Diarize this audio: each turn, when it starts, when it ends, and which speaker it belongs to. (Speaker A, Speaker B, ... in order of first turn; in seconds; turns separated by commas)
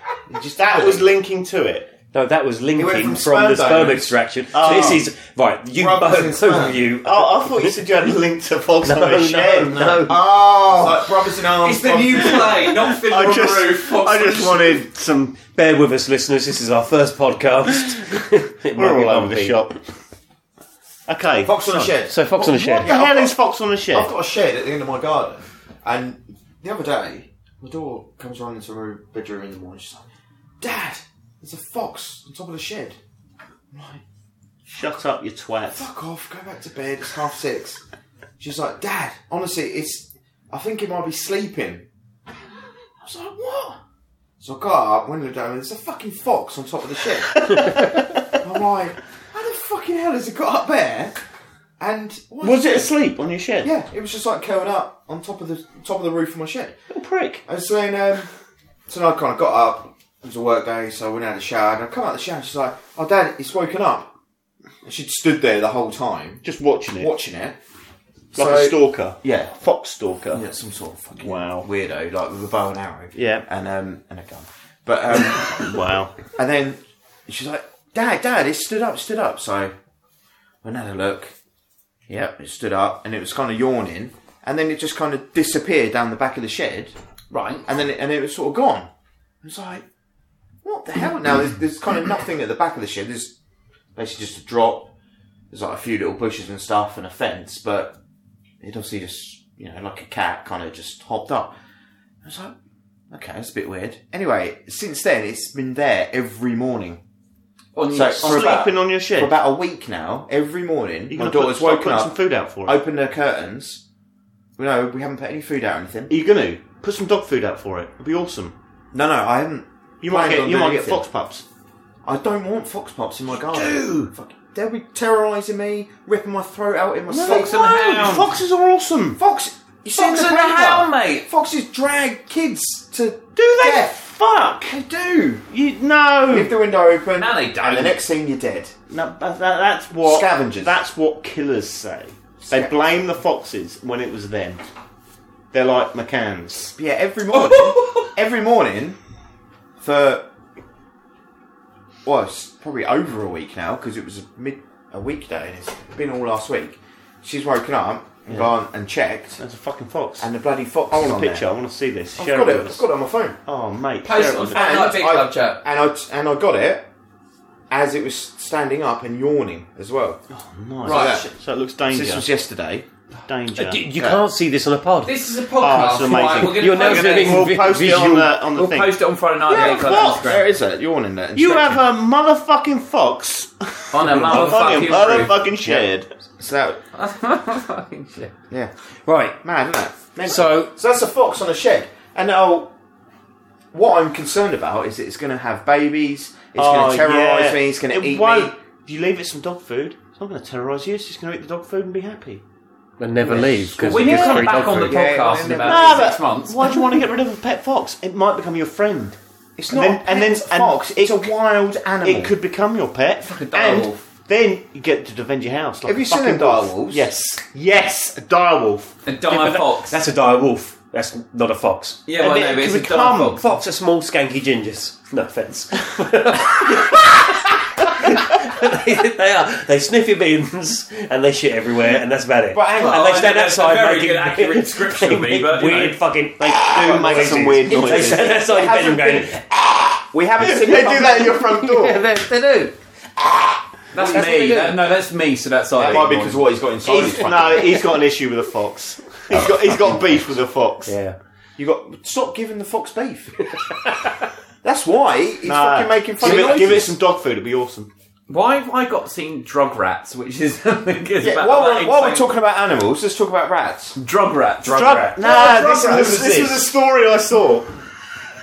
Speaker A: 0.3-1.1, Speaker B: 0.5-1.9, Speaker C: 2.1-7.8, Speaker A: 2.8-5.0, Speaker B: 4.5-5.0, Speaker A: 5.7-6.8, Speaker B: 7.0-10.9, Speaker C: 8.8-10.2, Speaker A: 9.7-12.7, Speaker D: 11.6-14.8, Speaker B: 13.0-15.4, Speaker C: 15.5-19.6, Speaker B: 18.7-19.8, Speaker B: 21.1-24.1, Speaker A: 21.4-23.4, Speaker C: 22.1-22.9, Speaker A: 23.9-30.1, Speaker A: 30.6-33.0, Speaker A: 33.7-34.0, Speaker B: 34.7-35.9, Speaker A: 35.7-37.8, Speaker A: 38.4-41.9, Speaker A: 43.0-43.8, Speaker A: 44.4-51.2, Speaker A: 51.8-52.9, Speaker B: 52.4-53.7, Speaker A: 53.6-56.8, Speaker B: 56.9-57.4, Speaker A: 57.5-58.3, Speaker A: 58.9-64.1, Speaker A: 64.8-67.5, Speaker B: 66.4-67.1, Speaker A: 68.3-69.5, Speaker B: 68.3-70.4, Speaker A: 70.3-79.7, Speaker B: 71.2-71.7, Speaker B: 73.1-73.4, Speaker B: 75.1-76.2, Speaker A: 80.6-81.3, Speaker A: 82.1-86.9, Speaker D: 87.3-87.6, Speaker A: 87.6-88.9, Speaker A: 89.4-89.8, Speaker A: 90.6-93.3, Speaker A: 94.0-94.9, Speaker A: 95.5-98.0, Speaker A: 98.6-101.5, Speaker A: 102.2-102.5, Speaker A: 103.1-107.0, Speaker D: 107.7-108.7, Speaker A: 107.9-113.8, Speaker B: 108.2-109.3, Speaker B: 111.1-112.8, Speaker A: 114.6-116.1, Speaker B: 116.1-118.5, Speaker A: 118.9-121.0, Speaker B: 120.0-121.4, Speaker A: 122.0-127.7, Speaker B: 123.5-124.1, Speaker B: 127.1-129.2, Speaker D: 127.1-128.3, Speaker A: 129.2-134.0, Speaker D: 129.9-131.2, Speaker B: 133.4-134.8, Speaker A: 134.6-135.4, Speaker B: 135.5-136.5, Speaker A: 136.3-138.7, Speaker D: 137.2-138.0, Speaker B: 138.9-144.6, Speaker A: 140.0-140.8, Speaker A: 142.4-142.7, Speaker B: 145.5-146.7, Speaker A: 146.8-149.0, Speaker D: 147.6-148.1, Speaker A: 149.8-150.3, Speaker A: 152.0-159.4, Speaker B: 159.4-160.3, Speaker A: 160.2-161.5, Speaker B: 160.9-162.8, Speaker A: 162.2-163.4, Speaker B: 163.4-164.8, Speaker D: 164.0-165.6, Speaker A: 164.5-166.9, Speaker A: 167.7-170.2, Speaker B: 170.3-172.3, Speaker A: 170.8-171.3, Speaker D: 170.8-171.3, Speaker A: 171.9-172.8, Speaker B: 173.3-173.9, Speaker C: 173.5-175.2, Speaker D: 175.0-177.8, Speaker B: 175.6-180.3, Speaker C: 175.8-178.3, Speaker D: 178.5-180.5, Speaker A: 179.5-181.8, Speaker B: 181.3-186.1, Speaker D: 183.9-185.3, Speaker C: 184.1-184.9, Speaker A: 186.4-186.8, Speaker D: 186.9-188.3, Speaker C: 189.1-189.4, Speaker A: 189.4-192.7, Speaker C: 190.2-190.7, Speaker A: 193.7-198.6, Speaker B: 196.6-202.4, Speaker C: 203.0-204.9, Speaker A: 203.2-206.2, Speaker D: 203.8-206.8, Speaker B: 205.6-209.2, Speaker A: 209.6-212.3, Speaker B: 209.7-211.3, Speaker B: 212.0-218.9, Speaker D: 213.2-214.0, Speaker A: 215.8-217.1, Speaker D: 219.1-220.0, Speaker C: 219.3-222.0, Speaker D: 222.1-223.5, Speaker B: 222.2-223.4, Speaker C: 223.4-239.4, Speaker A: 232.5-233.0, Speaker D: 232.7-236.0, Speaker B: 236.6-238.3, Speaker A: 236.8-239.4, Speaker D: 237.7-238.4, Speaker A: 239.9-242.0, Speaker B: 240.4-241.9, Speaker C: 241.7-242.4, Speaker D: 242.0-242.7, Speaker D: 243.9-247.7, Speaker C: 243.9-244.8, Speaker A: 245.7-247.8, Speaker B: 246.8-250.9, Speaker C: 250.8-251.2, Speaker A: 251.6-253.4, Speaker A: 254.6-256.9, Speaker B: 255.4-257.9, Speaker D: 256.2-256.9, Speaker D: 258.3-262.3, Speaker A: 261.2-264.0, Speaker D: 264.0-266.2, Speaker C: 264.6-265.2, Speaker B: 264.6-267.7, Speaker A: 265.2-266.6